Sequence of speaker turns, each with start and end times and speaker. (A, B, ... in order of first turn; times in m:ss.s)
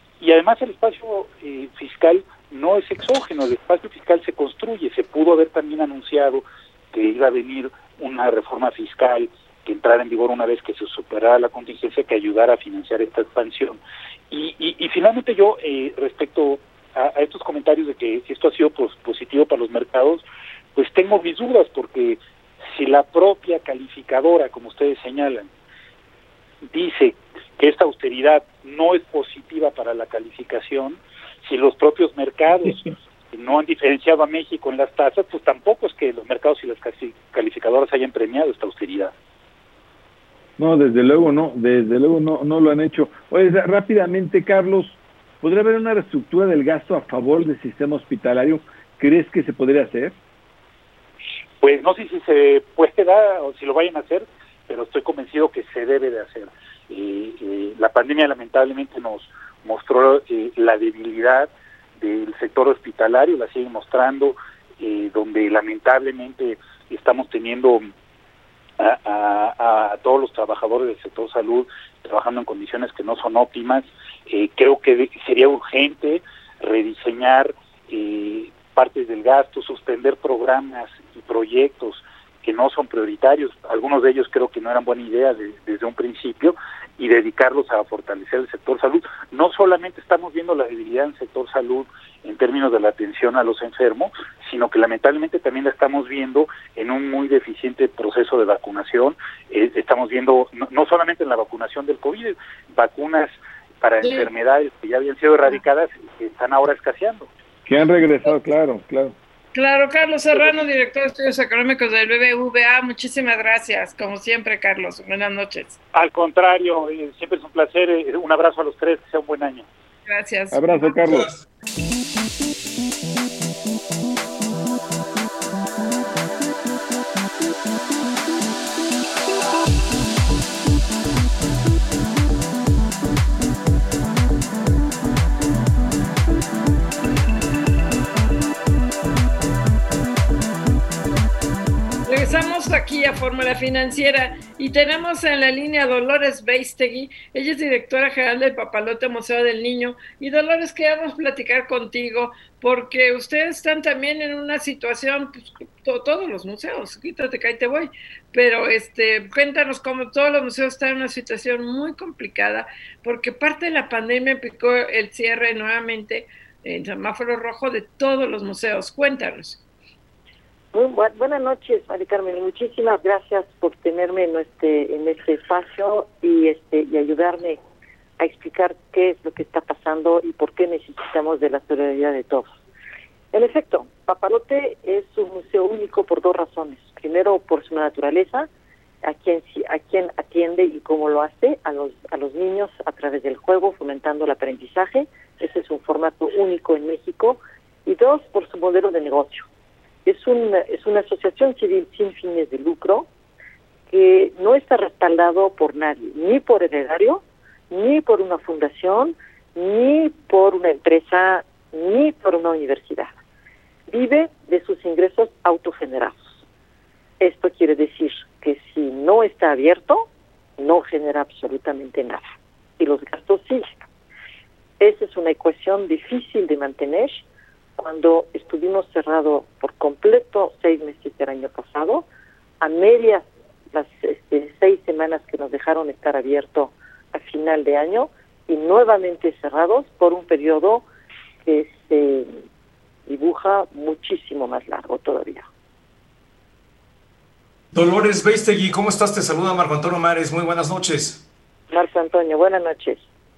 0:00.2-0:13.8 A
0:14.3-0:20.2 A
0:20.7-0:22.2 A
0:22.7-0:25.5 A
0:26.6-0:39.1 A
0:40.6-0:50.2 B
0:51.6-1:07.8 A
1:08.8-1:47.3 A
1:44.0-1:44.3 C
1:47.7-1:49.1 B
1:49.5-1:55.8 C
1:55.9-1:59.6 A
2:00.1-2:01.2 C
2:00.5-2:01.3 B
2:22.0-2:49.6 C
2:50.7-2:57.6 D
2:58.2-3:02.5 D
3:03.3-3:08.5 D
3:09.0-3:19.4 D
3:20.0-3:23.1 D
3:23.9-3:33.1 D
3:33.9-3:36.4 D
3:37.2-3:42.2 D
3:42.8-3:43.8 D
3:44.8-3:47.2 D
3:47.8-3:52.0 D
3:52.6-4:00.8 D
4:01.4-4:02.3 D
4:03.1-4:05.4 D
4:07.7-4:11.2 E
4:11.7-4:13.0 D